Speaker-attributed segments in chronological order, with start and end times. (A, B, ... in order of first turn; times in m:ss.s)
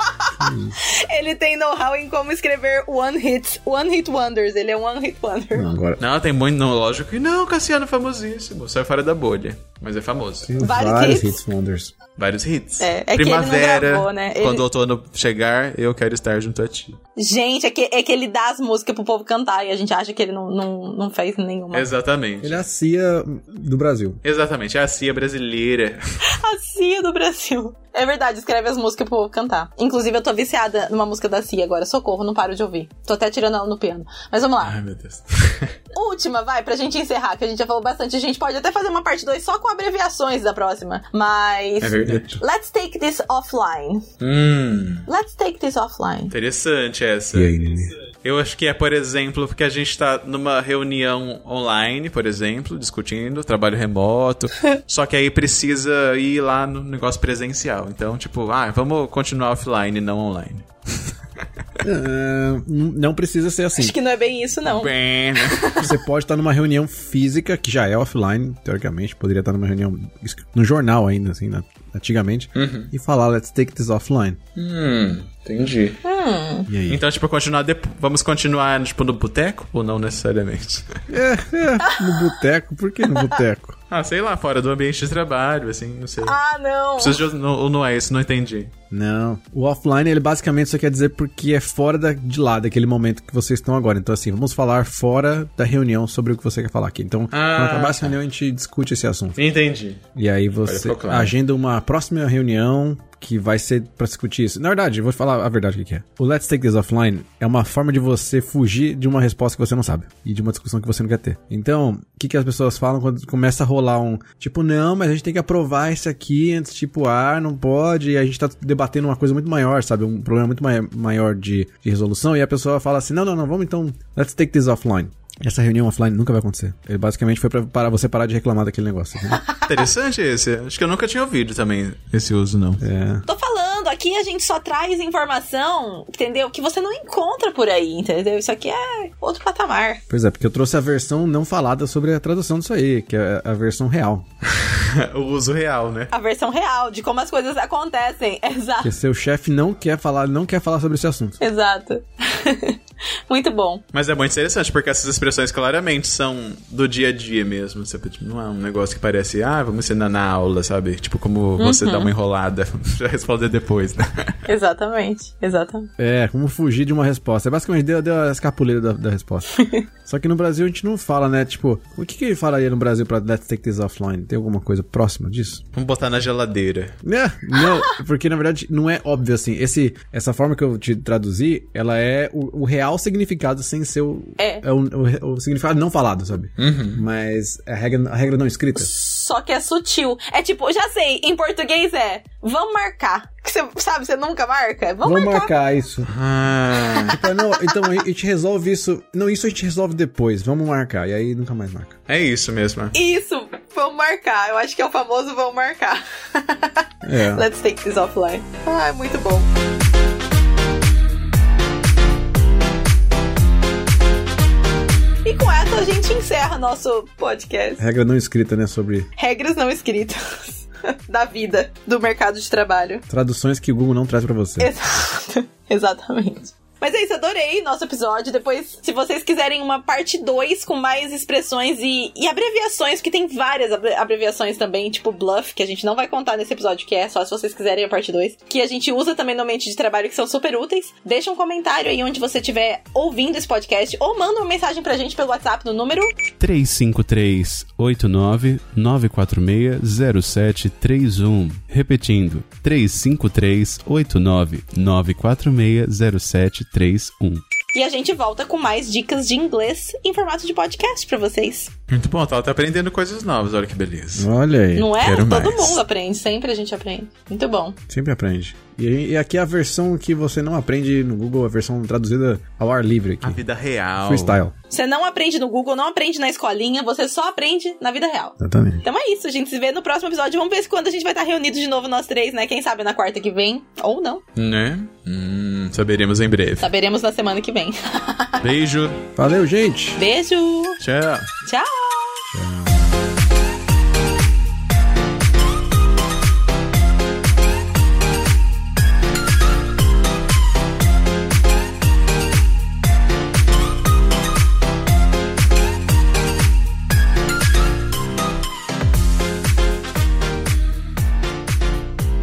0:00.4-0:00.8 A
0:00.8-0:05.7 B
0:05.5-0:06.0 A
0:06.0-0:10.5 C
0:10.4-0:12.0 A
0:10.6-0:11.4 B
0:12.2-0:17.0 C
0:12.8-0:14.6 B
0:17.2-0:21.9 B
0:21.7-0:22.6 C
0:22.4-0:24.2 A
0:24.2-0:26.0 C
0:26.3-0:34.8 B
0:34.6-0:35.7 C
0:35.9-0:44.0 B
0:41.8-0:42.3 C
0:44.2-0:45.1 C
0:45.1-0:46.3 B
0:46.3-0:47.6 C
0:47.3-0:47.9 A
0:48.2-1:01.1 C
1:01.8-1:04.0 A
1:03.8-1:05.9 B
1:04.6-1:05.8 C
1:05.8-1:14.4 A
1:12.6-1:12.9 C
1:14.6-1:16.0 C
1:16.0-1:16.7 B
1:16.7-1:17.0 A
1:16.9-1:20.9 C
1:21.1-1:23.8 A
1:23.9-1:26.4 C
1:26.2-1:27.2 B
1:27.0-1:28.7 C
1:28.9-1:39.4 A
1:37.3-1:38.1 C
1:39.4-1:40.0 C
1:40.2-2:09.4 A
1:40.6-1:41.3 C
2:09.6-2:12.8 C
2:12.8-2:13.2 A
2:13.2-2:20.0 B
2:20.1-2:24.2 A
2:24.5-2:26.1 C
2:26.1-2:28.9 B
2:28.8-2:31.4 A
2:31.4-2:33.8 B
2:33.9-2:44.4 C
2:41.6-2:42.1 B
2:44.5-2:45.9 B
2:46.0-2:55.6 A
2:49.6-2:49.8 B
2:55.7-2:57.0 C
2:57.0-3:08.9 A
3:04.4-3:04.6 B
3:06.6-3:07.0 C
3:08.8-3:15.6 B
3:15.0-3:16.1 A
3:16.1-3:17.2 C
3:17.1-3:22.0 A
3:17.1-3:17.9 B
3:22.1-3:22.9 C
3:22.9-3:29.5 B
3:27.0-3:27.5 A
3:35.2-3:37.8 B
3:37.8-3:39.1 A
3:39.2-3:43.0 B
3:43.1-3:44.7 A
3:44.6-4:06.2 B
4:06.4-4:17.4 D
4:17.7-4:21.7 B
4:21.9-4:24.3 C
4:24.2-4:25.0 A
4:24.8-4:27.8 B
4:25.0-4:25.8 C
4:27.9-4:33.4 A
4:33.2-4:34.4 C
4:34.0-4:34.5 A
4:34.7-4:44.2 B
4:38.4-4:38.8 A
4:44.4-4:46.6 C
4:46.6-4:48.4 B
4:48.4-4:49.0 C
4:49.2-4:50.0 A
4:50.0-4:50.8 B
4:50.8-4:51.3 C
4:51.4-4:52.3 B
4:52.3-4:53.0 A